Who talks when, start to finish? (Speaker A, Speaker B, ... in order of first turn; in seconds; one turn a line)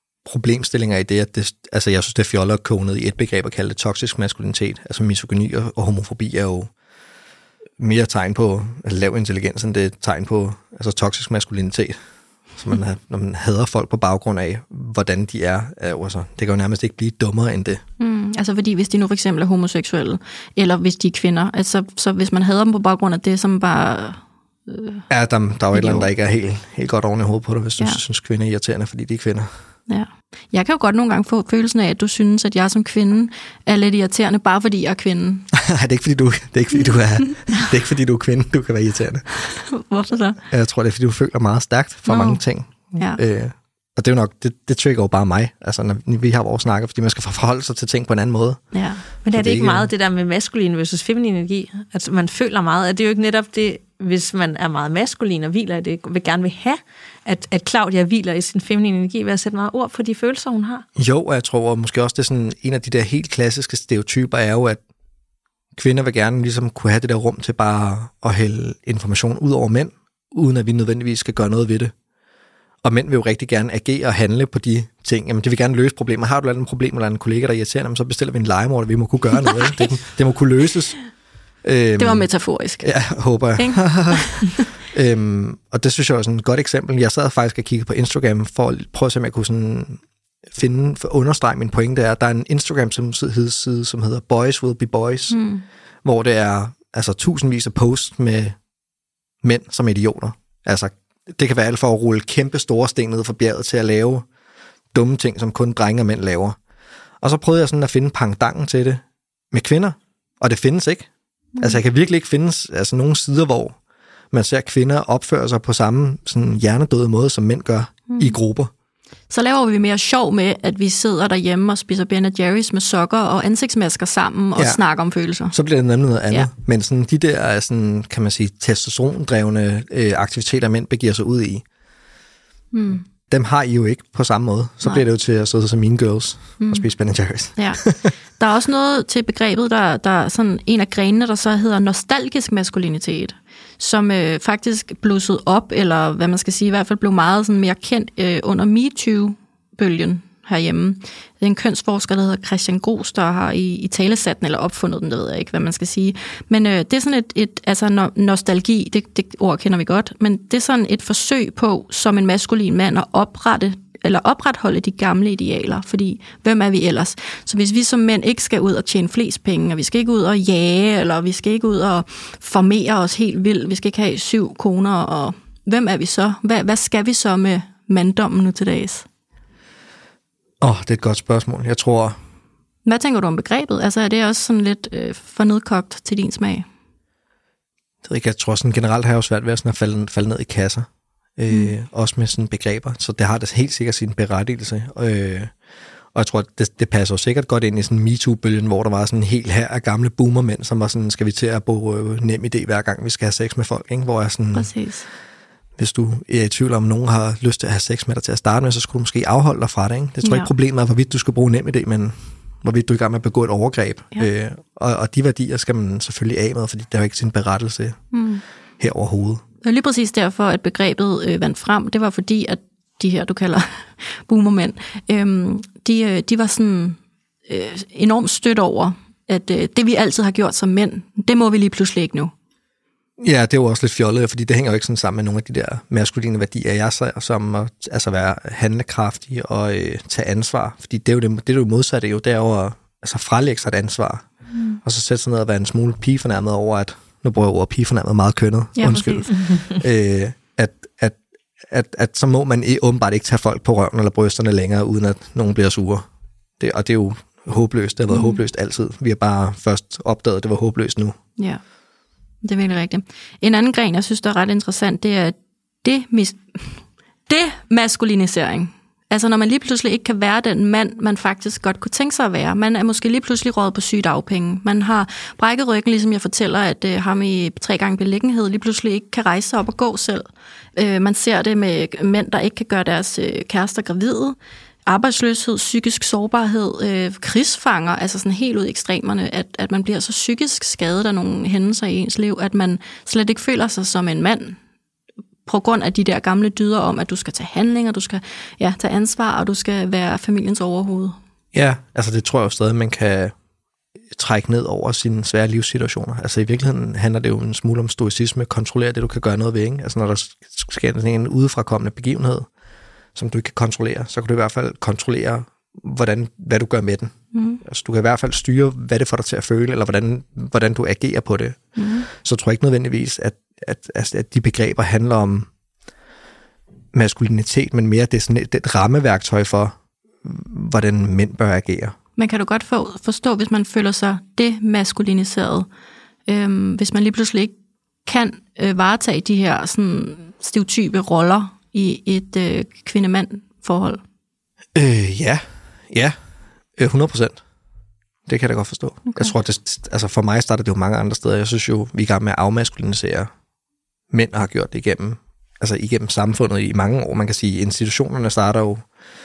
Speaker A: 0.2-6.7
Speaker A: 7.8-12.0
Speaker A: 12.6-17.8
Speaker B: 18.0-25.1
Speaker A: 25.1-29.5
Speaker B: 25.7-26.1
Speaker B: 29.9-35.5
Speaker A: 35.5-39.3
Speaker B: 39.4-40.4
Speaker A: 40.5-49.9
Speaker B: 42.1-42.4
Speaker B: 43.0-43.2
Speaker B: 48.7-49.0
Speaker C: 49.2-60.9
Speaker A: 61.0-64.8
Speaker A: 65.8-71.9
Speaker A: 72.8-81.0
Speaker A: 81.6-82.3
Speaker B: 82.0-82.9
Speaker A: 82.8-95.4
Speaker B: 83.6-84.7
Speaker B: 95.3-95.6
Speaker A: 96.0-98.6
Speaker A: 99.4-104.3
Speaker A: 104.9-106.6
Speaker A: 107.2-113.8
Speaker A: 114.3-118.7
Speaker B: 118.1-118.3
Speaker B: 119.3-125.5
Speaker A: 125.5-131.7
Speaker B: 132.7-133.0
Speaker A: 133.3-138.1
Speaker B: 136.6-136.9
Speaker B: 137.6-137.8
Speaker B: 138.4-179.1
Speaker A: 180.6-182.2
Speaker B: 182.9-186.7
Speaker A: 188.0-195.5
Speaker A: 196.1-204.7
Speaker B: 204.5-205.1
Speaker A: 205.8-218.0
Speaker B: 210.2-210.5
Speaker B: 218.1-218.4
Speaker A: 218.8-219.4
Speaker B: 219.6-232.3
Speaker A: 233.2-244.3
Speaker B: 244.5-244.8
Speaker A: 244.8-256.1
Speaker B: 248.8-249.3
Speaker A: 256.6-261.2
Speaker B: 258.1-258.4
Speaker B: 261.4-261.6
Speaker B: 262.4-280.2
Speaker B: 280.8-294.6
Speaker B: 295.4-301.2
Speaker A: 301.5-303.3
Speaker A: 304.1-312.5
Speaker A: 313.1-325.5
Speaker B: 317.3-317.6
Speaker B: 321.8-322.1
Speaker A: 326.9-331.9
Speaker B: 332.2-335.7
Speaker B: 336.3-344.0
Speaker A: 344.8-346.2
Speaker A: 346.8-347.4
Speaker A: 348.3-353.3
Speaker B: 349.1-349.3
Speaker A: 354.1-358.9